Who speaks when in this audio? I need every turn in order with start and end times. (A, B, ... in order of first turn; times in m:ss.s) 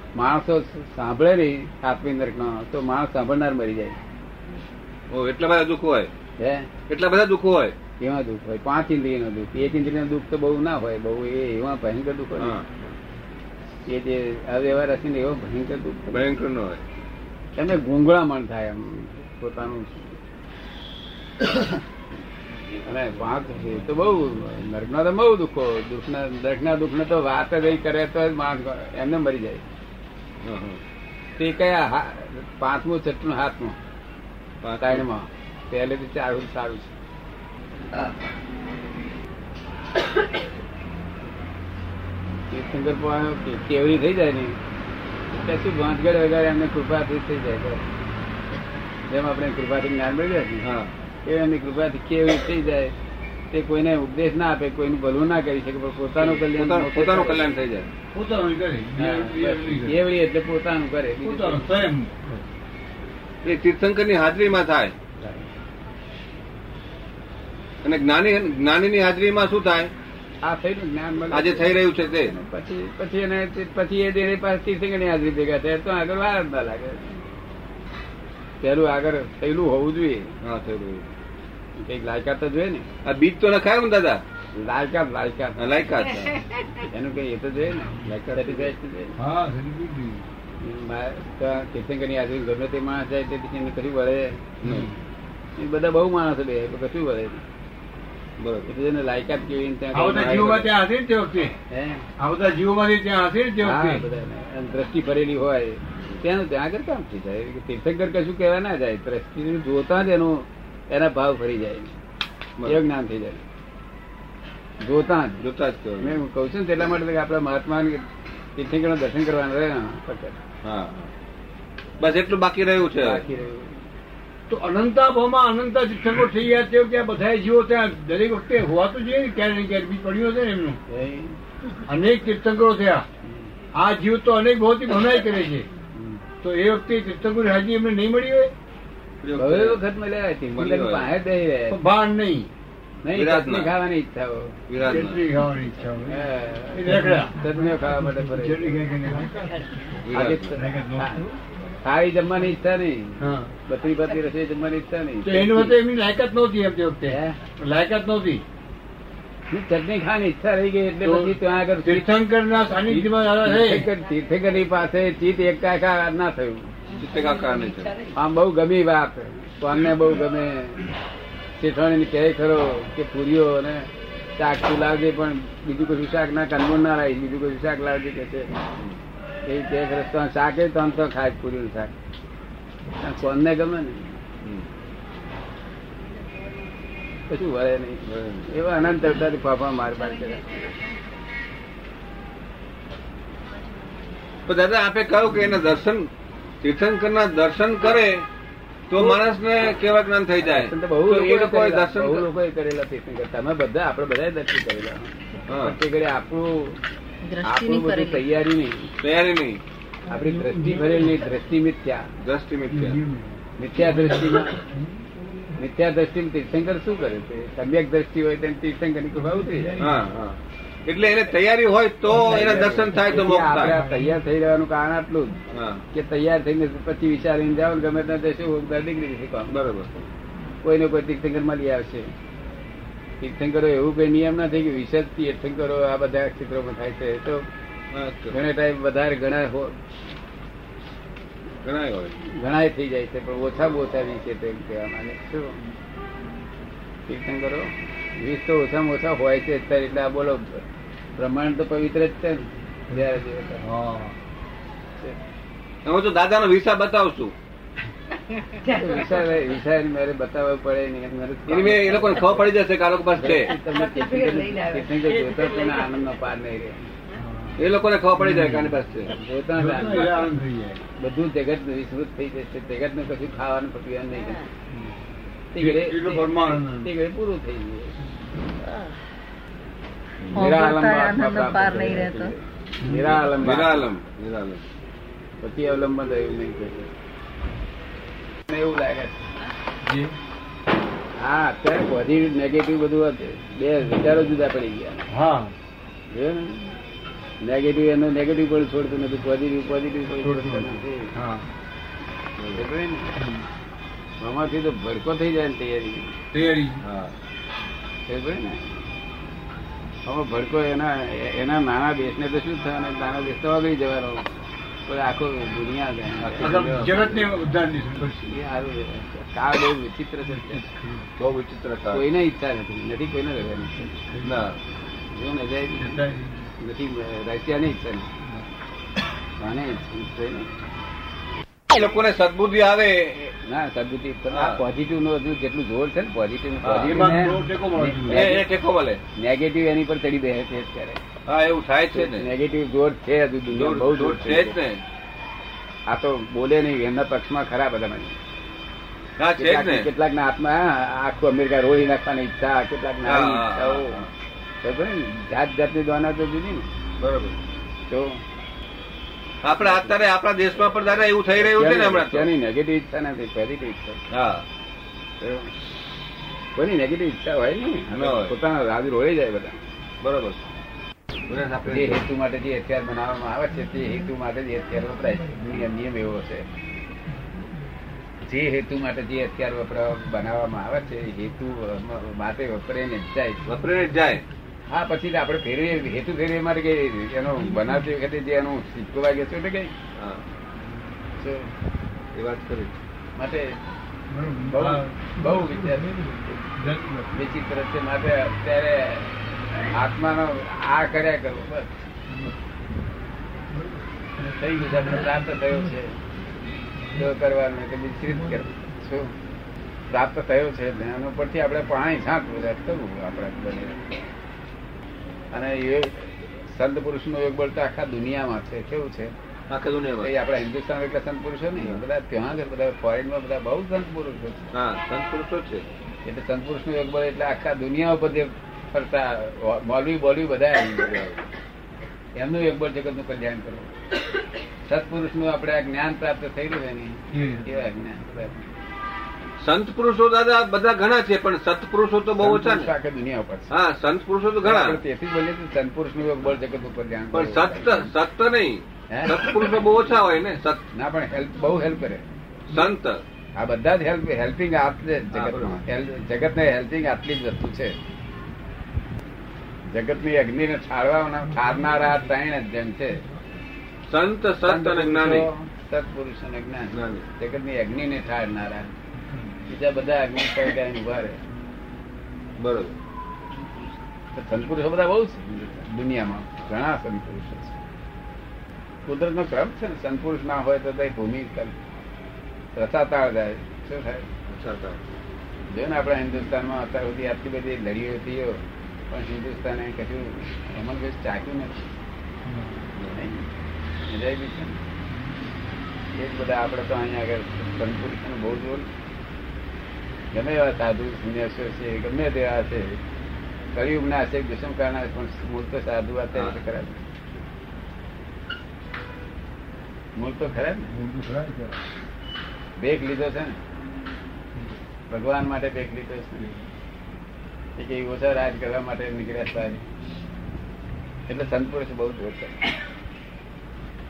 0:00.2-0:04.0 A
0:05.1-0:06.1 B
0:06.4-0:06.7 A
0:06.9-0:07.8 B
0:08.0-0:12.6 A
0:12.4-0:12.7 B
0:13.9-0:16.3 A
0:16.1-0:16.8 B
0:17.6-0:20.2 A
0:22.9-0:29.6 A
0:30.4-0:30.8 B
0:31.4-0:33.8 A
0:34.6-0:35.0 B
0:34.8-0:36.9 A
0:42.5-0:44.6 A
0:45.3-0:47.8 A
0:49.1-0:50.7 A
0:50.6-0:50.9 B
0:51.2-0:52.9 A
0:53.5-0:57.5 A
0:56.2-0:57.9 B
0:58.1-1:00.0 C
0:59.0-1:01.9 A
1:01.2-1:02.4 C
1:03.4-1:04.9 B
1:05.2-1:05.5 A
1:07.8-1:09.9 B
1:10.4-1:17.2 A
1:11.3-1:12.3 B
1:18.6-1:20.3 A
1:20.4-1:21.1 B
1:21.8-1:22.9 A
1:23.0-1:24.2 B
1:24.6-1:25.6 A
1:25.6-1:26.5 B
1:26.8-1:29.2 A
1:28.3-1:28.7 B
1:29.2-1:30.2 C
1:30.6-1:34.5 A
1:34.6-1:34.9 B
1:35.6-1:37.4 A
1:38.4-1:38.7 B
1:38.7-1:40.7 A
1:39.9-1:41.6 C
1:40.1-1:40.7 B
1:41.7-1:42.0 A
1:42.2-1:44.0 C
1:43.6-1:52.0 A
1:52.7-1:53.4 A
1:54.8-1:55.4 A
1:55.4-1:56.2 B
1:56.0-1:58.0 A
1:58.6-2:00.4 A
2:00.6-2:01.1 B
2:02.0-2:03.2 B
2:02.9-2:03.8 A
2:04.5-2:10.8 C
2:10.9-2:11.4 A
2:11.9-2:13.0 C
2:13.8-2:15.7 C
2:16.0-2:16.2 A
2:16.4-2:18.5 C
2:19.2-2:19.8 B
2:19.4-2:21.8 A
2:20.5-2:21.1 B
2:21.7-2:22.5 C
2:23.0-2:24.6 A
2:23.1-2:23.7 B
2:24.7-2:25.2 B
2:24.8-2:27.4 C
2:26.1-2:28.7 A
2:28.3-2:29.4 C
2:30.1-2:30.6 B
2:30.1-2:31.3 A
2:30.6-2:31.2 C
2:31.8-2:35.8 A
2:33.2-2:33.5 C
2:35.2-2:38.4 C
2:37.1-2:37.4 A
2:39.5-2:42.1 A
2:41.0-2:43.9 C
2:42.8-2:46.7 A
2:46.9-2:48.0 B
2:48.1-2:50.9 A
2:51.6-2:58.5 A
2:59.5-3:01.9 A
3:03.0-3:04.1 A
3:04.4-3:04.7 B
3:07.3-3:10.7 A
3:08.1-3:08.5 B
3:14.5-3:16.0 B
3:16.6-3:18.3 B
3:18.9-3:22.3 B
3:18.9-3:19.2 A
3:20.4-3:26.8 A
3:25.5-3:25.8 B
3:27.2-3:28.2 D
3:27.4-3:28.9 A
3:29.0-3:29.6 B
3:30.1-3:32.1 A
3:30.4-3:31.1 C
3:32.2-3:33.0 B
3:32.7-3:35.0 C
3:33.6-3:34.6 A
3:35.6-3:39.8 A
3:39.8-3:43.8 B
3:42.1-3:45.4 A
3:45.5-3:45.8 B
3:45.9-3:49.6 A
3:49.5-3:50.1 B
3:50.6-3:52.1 A
3:53.2-3:57.4 A
3:57.9-3:58.4 B
3:58.3-3:59.8 A
4:01.6-4:02.2 B
4:02.3-4:05.6 A
4:07.1-4:10.6 A
4:11.2-4:13.6 A
4:13.6-4:14.2 C
4:15.8-4:17.3 B
4:18.6-4:22.5 A
4:21.5-4:23.6 B
4:23.2-4:26.9 A
4:27.2-4:27.6 C
4:27.6-4:29.1 B
4:28.2-4:28.8 C
4:29.2-4:30.2 A
4:29.5-4:30.8 C
4:31.0-4:34.5 A
4:35.5-4:38.0 A
4:35.6-4:36.9 C
4:40.3-4:43.9 A
4:40.8-4:42.3 D
4:42.8-4:43.2 C
4:42.9-4:44.6 B
4:45.4-4:46.9 A
4:48.5-4:49.2 A
4:49.8-4:50.2 C
4:51.2-4:55.0 A
4:55.1-4:55.5 C
4:56.1-4:56.8 A
4:57.4-5:01.1 A
5:00.2-5:01.5 C
5:02.4-5:02.6 B
5:02.6-5:03.1 A
5:03.2-5:03.5 C
5:04.2-5:06.1 A
5:06.3-5:06.8 C
5:06.8-5:07.2 B
5:08.1-5:08.7 A
5:10.1-5:14.3 A
5:14.9-5:16.6 A
5:16.2-5:17.3 B
5:16.4-5:18.3 C
5:18.3-5:20.7 A
5:20.3-5:21.1 C
5:21.2-5:22.0 B
5:21.9-5:24.0 A
5:24.0-5:24.4 C
5:24.2-5:24.6 B
5:25.1-5:26.0 A
5:25.8-5:26.4 C
5:26.6-5:28.1 A
5:29.4-5:30.5 A
5:31.7-5:33.3 B
5:33.4-5:38.4 A
5:34.3-5:34.6 B
5:36.6-5:37.0 B
5:36.8-5:38.3 C
5:38.1-5:39.0 B
5:39.2-5:41.0 A
5:41.3-5:42.3 B
5:41.9-5:44.6 A
5:43.5-5:44.8 B
5:45.9-5:48.2 A
5:49.2-5:49.9 B
5:49.4-5:54.0 A
5:53.1-5:54.1 B
5:54.6-5:56.7 A
5:57.0-5:57.4 B
5:57.9-5:58.2 A
5:59.4-6:02.3 B
5:59.6-5:59.9 A
6:01.4-6:04.0 A
6:04.1-6:04.4 B
6:05.2-6:05.5 A
6:06.6-6:09.6 A
6:07.9-6:08.3 B
6:10.0-6:10.4 B
6:11.3-6:12.0 B
6:11.7-6:16.5 A
6:18.3-6:23.4 A
6:23.4-6:24.2 B
6:24.7-6:29.7 A
6:30.0-6:30.2 B
6:31.2-6:31.5 A
6:32.2-6:32.7 B
6:33.2-6:33.6 A
6:34.1-6:35.0 C
6:34.5-6:36.4 A
6:36.6-6:37.1 C
6:37.1-6:39.1 A
6:39.7-6:41.7 A
6:44.3-6:46.0 A
6:46.9-6:49.1 A
6:49.9-6:53.9 A
6:55.3-6:59.1 A
6:59.5-7:00.1 B
7:00.0-7:04.5 A
7:01.6-7:01.8 B
7:04.5-7:05.7 B
7:06.0-7:10.9 A
7:10.8-7:11.2 B
7:12.2-7:13.7 A
7:14.7-7:18.5 A
7:17.1-7:17.5 C
7:19.4-7:22.7 B
7:22.2-7:23.5 A
7:23.5-7:24.8 B
7:24.4-7:27.9 A
7:27.1-7:30.6 B
7:30.7-7:32.0 A
7:32.5-7:33.0 B
7:33.4-7:37.8 A
7:35.1-7:35.6 B
7:39.7-7:43.0 A
7:43.9-7:45.3 B
7:44.5-7:48.7 A
7:46.7-7:47.1 B
7:49.5-7:51.2 A
7:52.4-7:52.8 B
7:54.2-7:57.6 A
7:58.9-8:01.5 A
8:02.6-8:04.1 A
8:04.3-8:04.8 B
8:05.5-8:11.6 A
8:12.3-8:12.6 C
8:12.9-8:13.3 A
8:13.9-8:14.6 A
8:16.0-8:18.7 A
8:20.1-8:22.8 A
8:23.6-8:26.8 A
8:30.0-8:30.7 A
8:30.7-8:31.6 B
8:32.6-8:33.4 A
8:34.9-8:36.3 A
8:37.6-8:39.6 A
8:41.1-8:42.4 A